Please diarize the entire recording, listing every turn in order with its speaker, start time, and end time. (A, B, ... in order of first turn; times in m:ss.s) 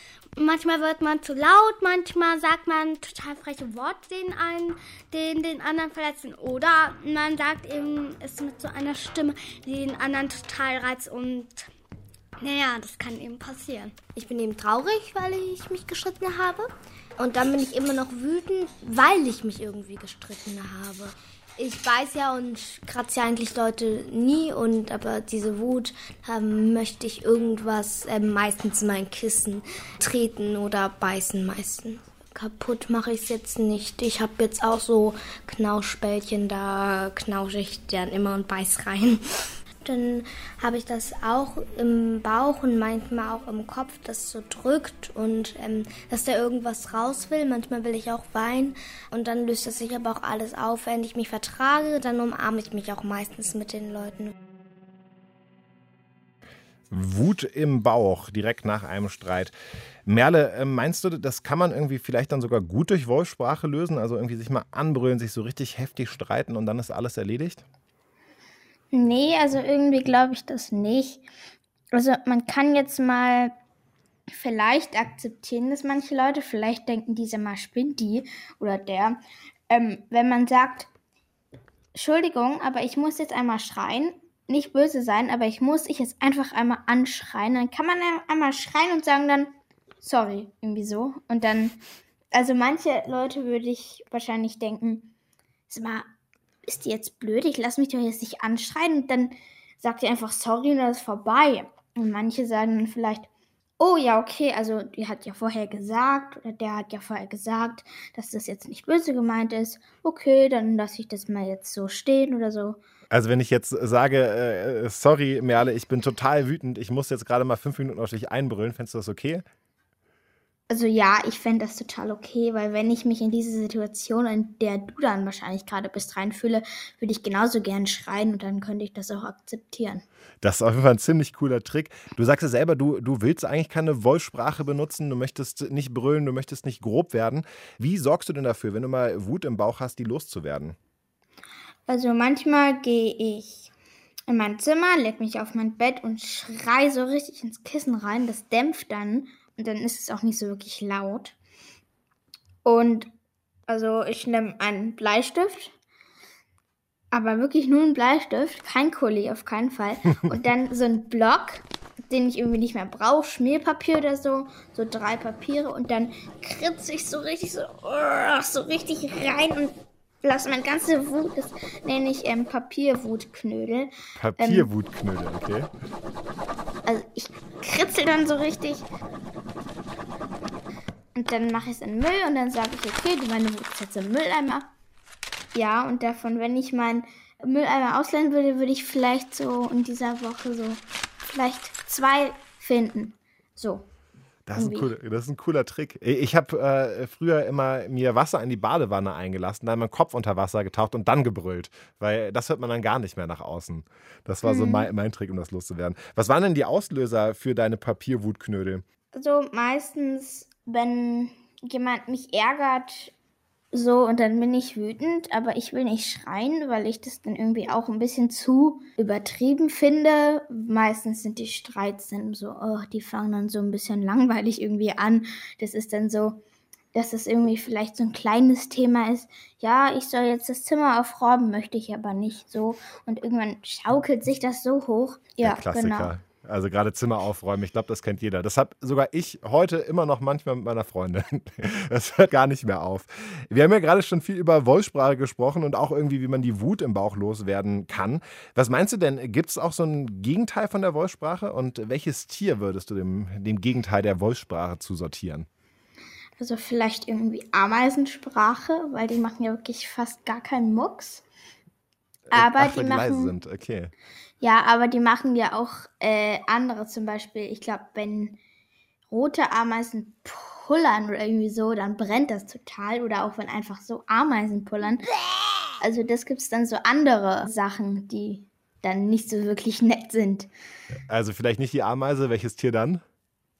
0:00.4-0:11.7 A
0:12.4-0:14.1 A
0:14.1-0:16.6 B
0:17.2-0:39.2 B
0:39.8-0:54.3 B
0:56.9-0:59.5 C
1:00.0-1:07.6 C
1:08.9-1:11.2 D
1:11.9-1:13.5 D
1:14.3-1:20.9 D
1:21.9-1:31.8 D
1:32.3-1:35.1 D
1:35.7-1:36.0 D
1:36.6-1:43.3 D
1:43.8-1:52.8 D
1:53.1-1:59.4 C
2:00.7-2:10.0 D
2:10.4-2:20.8 C
2:21.9-2:23.7 D
2:24.3-2:31.4 D
2:32.6-2:33.1 D
2:33.7-2:35.7 D
2:37.1-2:54.7 D
2:54.2-2:55.7 C
2:56.8-2:58.9 D
3:01.1-3:04.7 D
3:05.5-3:10.8 D
3:11.3-3:13.8 D
3:14.5-3:28.8 C
3:14.5-3:14.9 D
3:24.4-3:24.9 D
3:29.1-3:33.1 D
3:33.7-3:46.4 D
3:46.9-3:56.1 D
3:55.4-4:15.5 C
4:16.4-4:21.2 D
4:22.3-4:23.9 C
4:22.3-4:23.3 D
4:24.4-4:28.4 D
4:29.1-4:35.0 D
4:35.8-4:40.5 D
4:41.1-4:43.0 C